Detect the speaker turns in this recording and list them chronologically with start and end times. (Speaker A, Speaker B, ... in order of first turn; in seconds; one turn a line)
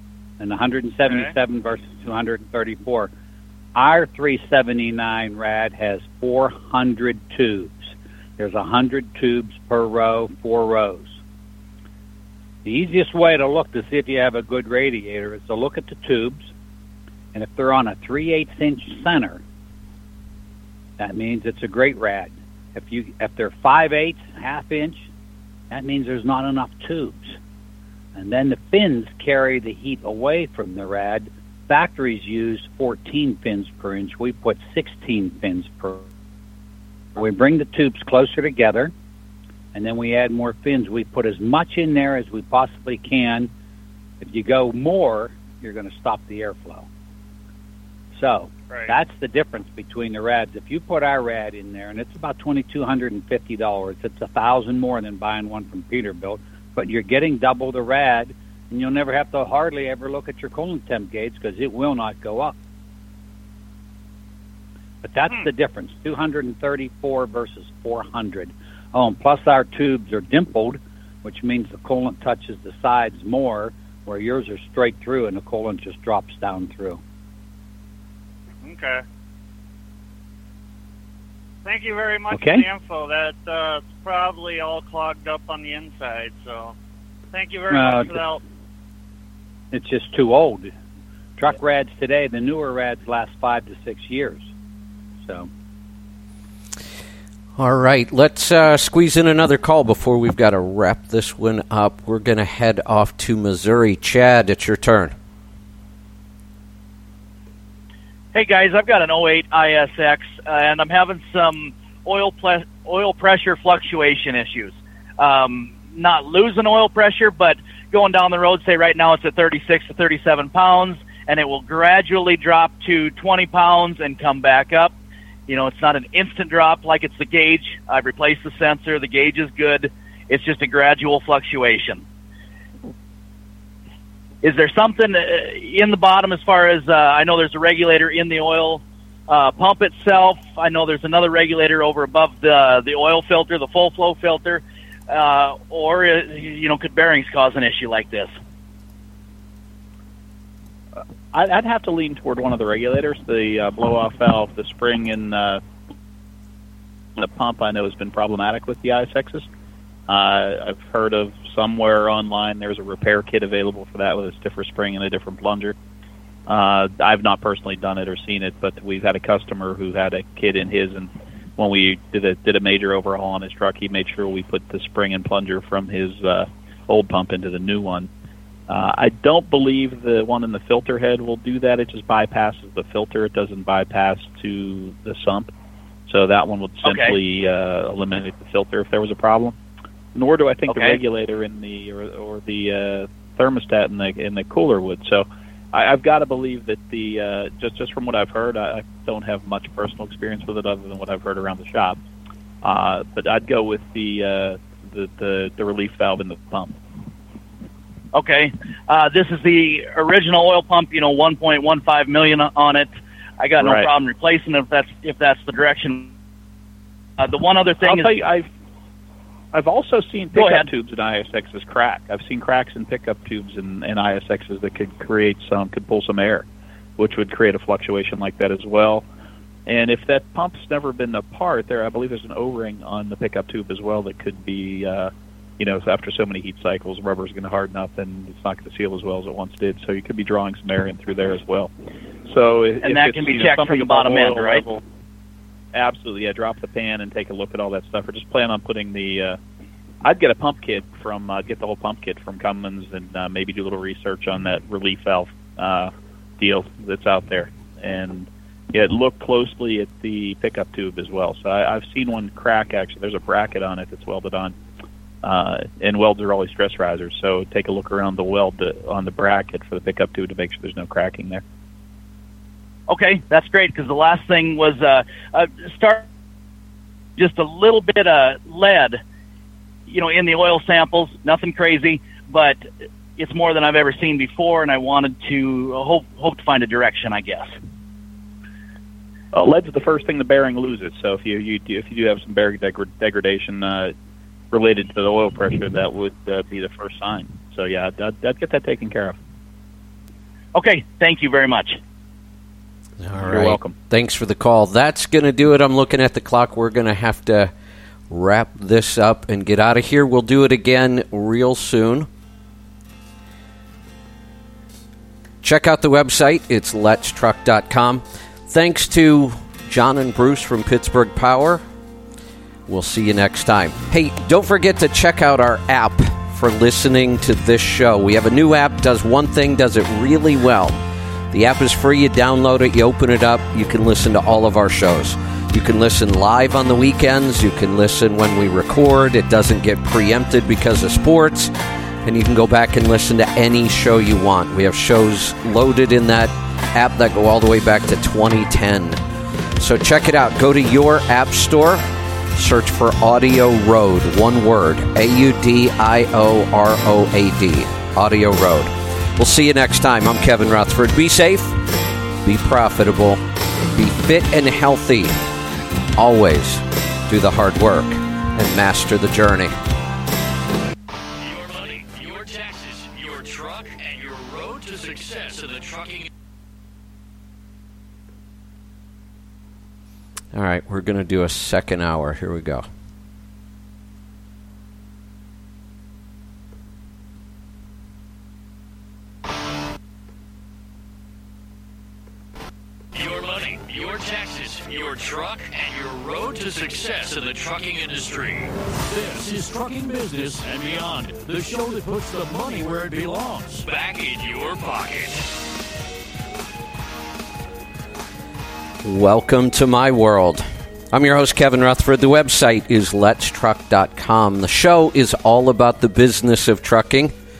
Speaker A: 0.4-3.1
Speaker A: 3.8-7.8
Speaker A: 8.4-11.2
Speaker A: 12.6-16.5
Speaker A: 17.3-19.4
Speaker A: 21.0-25.1
Speaker A: 25.7-27.4
Speaker A: 28.1-36.0
Speaker A: 37.1-38.9
Speaker A: 39.7-43.5
Speaker A: 44.2-46.9
Speaker A: 48.1-62.5
Speaker A: 65.0-77.0
Speaker B: 78.6-79.0
Speaker B: 81.6-86.7
Speaker A: 82.3-82.6
Speaker B: 87.3-88.4
Speaker A: 87.7-88.2
Speaker A: 89.7-90.7
Speaker A: 91.4-94.5
Speaker C: 97.6-105.1
Speaker D: 108.3-124.9
Speaker D: 125.5-132.0
Speaker D: 134.4-148.3
Speaker E: 151.3-155.6
Speaker E: 157.2-159.5
Speaker E: 160.1-165.7
Speaker E: 166.5-178.1
Speaker E: 178.7-185.5
Speaker E: 186.1-189.5
Speaker D: 186.8-187.2
Speaker E: 190.1-202.0
Speaker D: 190.7-191.0
Speaker E: 202.6-206.8
Speaker D: 208.1-216.1
Speaker E: 213.6-213.9
Speaker D: 217.2-218.2
Speaker E: 217.8-218.5
Speaker E: 219.5-226.4
Speaker D: 220.3-220.7
Speaker E: 227.0-229.0
Speaker E: 229.7-241.7
Speaker E: 242.2-244.8
Speaker D: 242.8-244.6
Speaker E: 245.7-249.4
Speaker E: 250.0-264.5
Speaker E: 265.2-271.4
Speaker D: 272.9-276.0
Speaker D: 277.2-279.0
Speaker D: 279.9-287.5
Speaker E: 289.3-293.9
Speaker E: 294.5-299.2
Speaker D: 300.5-301.8
Speaker C: 303.0-307.5
Speaker E: 303.2-303.8
Speaker C: 308.1-312.1
Speaker C: 315.4-321.6
Speaker C: 322.7-330.8
Speaker C: 331.3-341.5
Speaker C: 342.0-349.0
Speaker C: 349.6-361.6
Speaker C: 362.2-363.2
Speaker C: 363.7-365.2
Speaker C: 365.9-369.5
Speaker F: 371.2-376.1
Speaker C: 380.3-382.6
Speaker F: 392.9-405.3
Speaker C: 408.8-417.1